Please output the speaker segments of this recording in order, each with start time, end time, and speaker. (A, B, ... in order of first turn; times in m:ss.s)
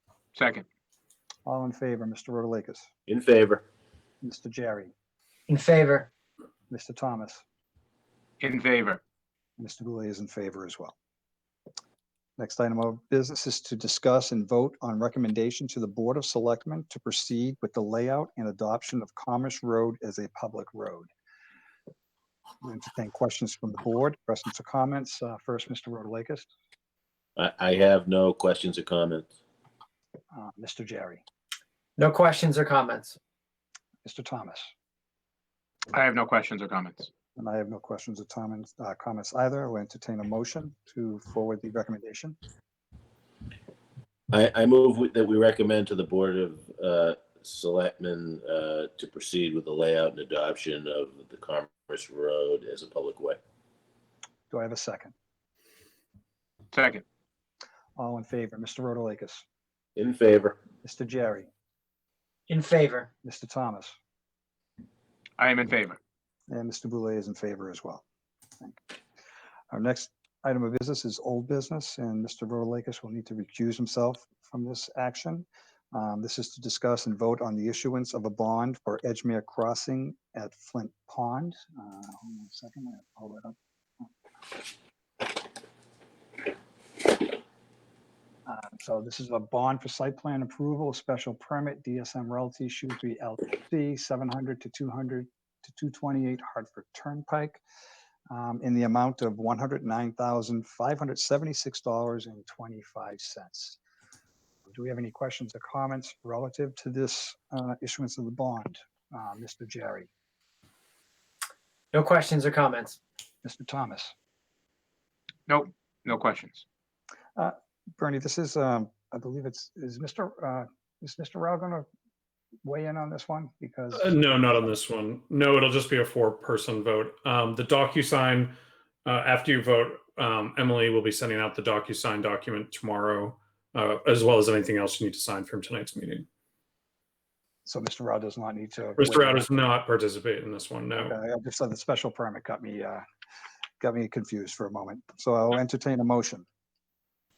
0:00.4-0:00.6 A
0:01.5-0:02.9 B
0:03.1-0:03.6 C
0:04.2-0:04.9 B
0:05.5-0:06.1 D
0:06.7-0:07.4 B
0:08.4-0:09.0 A
0:09.6-0:11.0 B
0:12.4-0:21.1 B
0:22.6-0:26.5 B
0:27.4-0:29.3 C
0:30.3-0:31.2 B
0:32.0-0:33.2 D
0:34.0-0:34.7 B
0:35.9-0:37.1 A
0:37.4-0:42.4 B
0:44.3-0:53.4 C
0:54.5-0:55.1 B
0:56.7-0:57.0 A
0:58.0-0:59.4 B
1:00.0-1:00.6 C
1:00.8-1:01.5 B
1:02.5-1:03.1 D
1:03.2-1:04.0 B
1:05.4-1:06.0 A
1:06.5-1:08.0 B
1:09.7-1:24.1 B
1:28.5-1:37.6 B
1:38.3-1:43.8 B
1:44.7-1:50.1 B
1:51.9-1:53.0 D
1:53.4-1:54.1 B
1:55.5-1:56.6 A
1:57.4-2:01.9 B
2:02.6-2:04.2 B
2:03.9-2:16.3 E
2:17.6-2:19.6 B
2:19.0-2:21.2 E
2:20.9-2:23.0 B
2:23.8-2:26.5 B